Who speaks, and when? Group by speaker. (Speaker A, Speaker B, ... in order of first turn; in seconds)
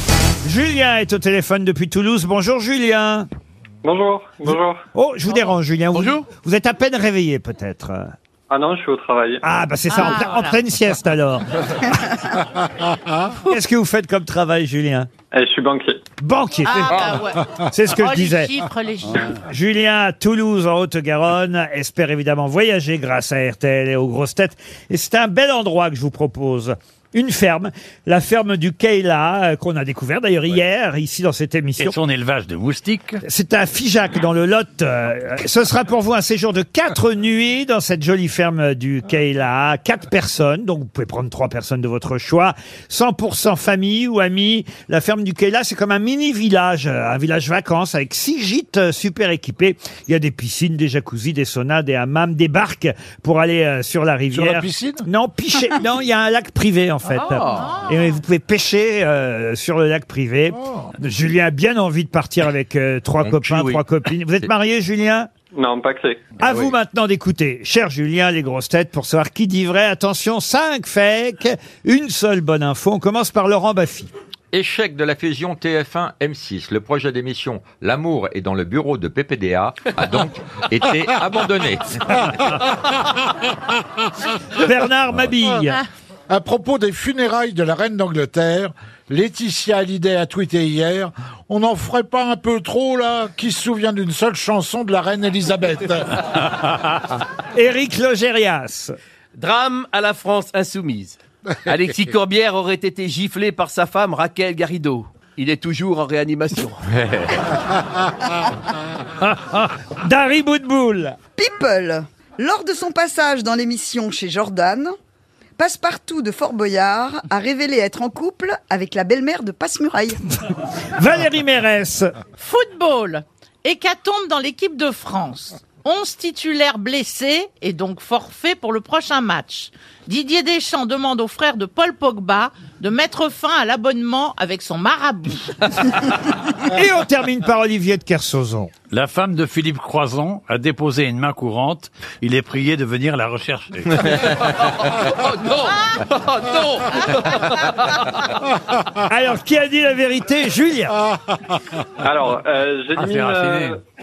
Speaker A: 0.4-3.3, 4.9-8.1, 9.4-12.2, 13.4-15.1, 16.2-18.6, 19.4-32.0, 33.2-65.3, 66.4-74.1, 84.6-85.8, 97.5-99.0, 109.2-111.2, 121.0-122.1, 136.6-138.7, 149.1-151.0
Speaker B: 3.8-4.8, 8.5-9.4, 15.3-16.0, 65.5-66.2, 152.0-153.8
Speaker C: 9.9-10.6, 16.6-19.4, 57.5-58.0, 122.4-135.9
Speaker D: 31.8-33.2, 138.9-144.4, 153.0-153.8
Speaker E: 54.3-55.0, 60.6-60.9, 86.3-96.2
Speaker F: 63.2-63.8, 74.5-82.3
Speaker G: 99.4-101.2, 101.7-106.8
Speaker H: 111.4-114.9, 115.6-120.2